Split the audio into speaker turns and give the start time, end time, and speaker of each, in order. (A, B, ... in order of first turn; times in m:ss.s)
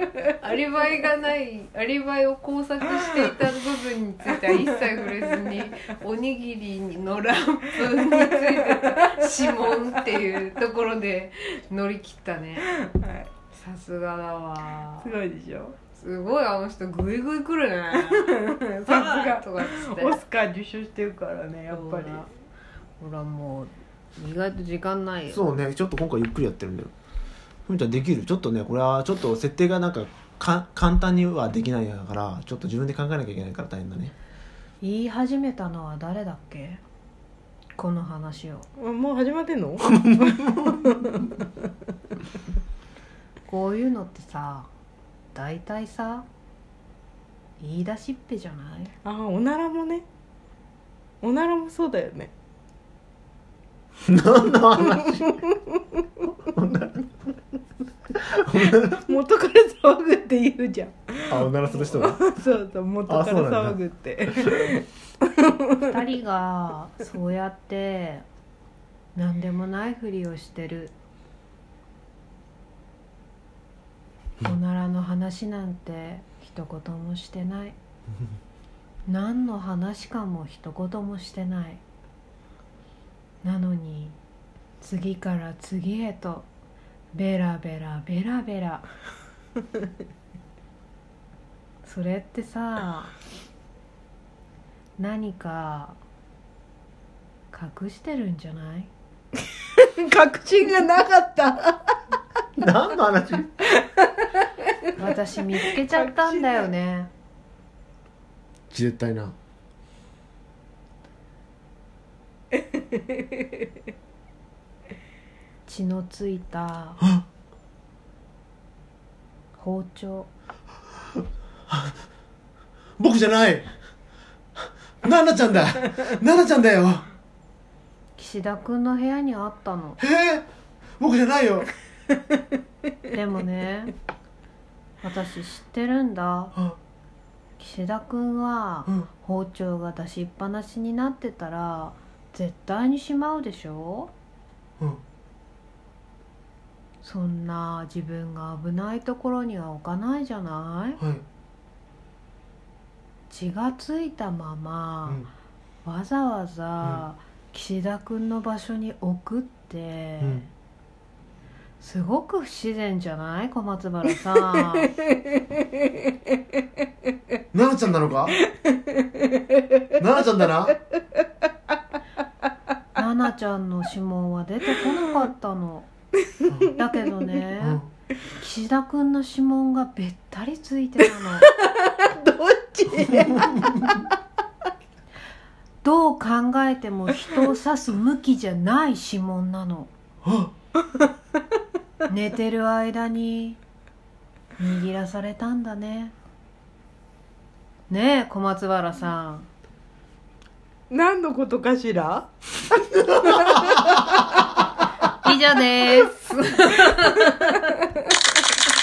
0:00.3-0:12.7 A
0:07.8-0:10.2 B
0:12.6-0:13.3 B
0:13.5-0:15.1 A
0:15.0-0:15.8 B
0:15.9-0:20.2 A
0:17.9-0:22.3 B
0:21.7-0:22.3 A
0:23.0-0:25.6 A
0:25.3-0:26.9 C
0:27.7-0:34.1 C
0:34.8-0:36.8 A
0:37.8-0:38.7 A
0:38.8-0:41.5 B
0:43.5-0:44.7 A
0:45.3-0:46.2 A
0:47.6-0:48.9 A
0:49.0-0:50.0 B
0:51.2-0:52.3 B
0:54.0-0:55.4 C
0:55.2-0:56.0 B
0:56.4-0:57.1 C
0:58.2-0:59.0 C
0:58.7-1:05.8 B
1:01.3-1:02.2 C
1:03.1-1:03.8 C
1:05.8-1:08.2 A
1:09.1-1:10.9 A
1:14.4-1:17.7 A
1:19.0-1:21.8 A
1:23.4-1:24.2 A
1:24.8-1:26.5 A
1:27.1-1:28.8 A
1:31.8-1:33.1 A
1:35.0-1:36.0 A
1:37.5-1:38.9 A
1:39.8-1:41.9 B
1:42.6-1:43.5 C
1:43.8-1:44.3 B
1:45.0-1:47.1 A
1:45.7-1:46.7 B
1:48.7-1:49.3 C
1:52.8-1:53.2 B
1:55.6-1:57.0 A
1:59.6-2:00.3 A
2:03.0-2:03.7 C
2:05.0-2:07.1 C
2:08.2-2:10.0 A
2:10.0-2:10.4 C
2:11.0-2:11.7 C
2:13.1-2:13.9 A
2:15.0-2:16.5 A
2:17.6-2:24.1 A
2:27.0-2:31.0 A
2:33.3-2:35.2 A
2:35.8-2:40.5 A
2:40.2-2:40.4 C
2:41.8-2:44.9 A
2:47.5-2:48.4 C
2:48.6-2:50.0 B
2:50.0-2:50.8 C
2:52.9-2:55.9 A
2:56.5-2:57.8 A
2:58.4-3:01.5 A
3:01.4-3:04.0 B
3:05.8-3:09.9 A
3:12.1-3:13.6 A
3:14.6-3:16.1 A
3:17.9-3:19.5 A
3:20.9-3:24.5 B
3:23.6-3:24.1 C
3:25.1-3:27.8 A
3:26.6-3:27.6 B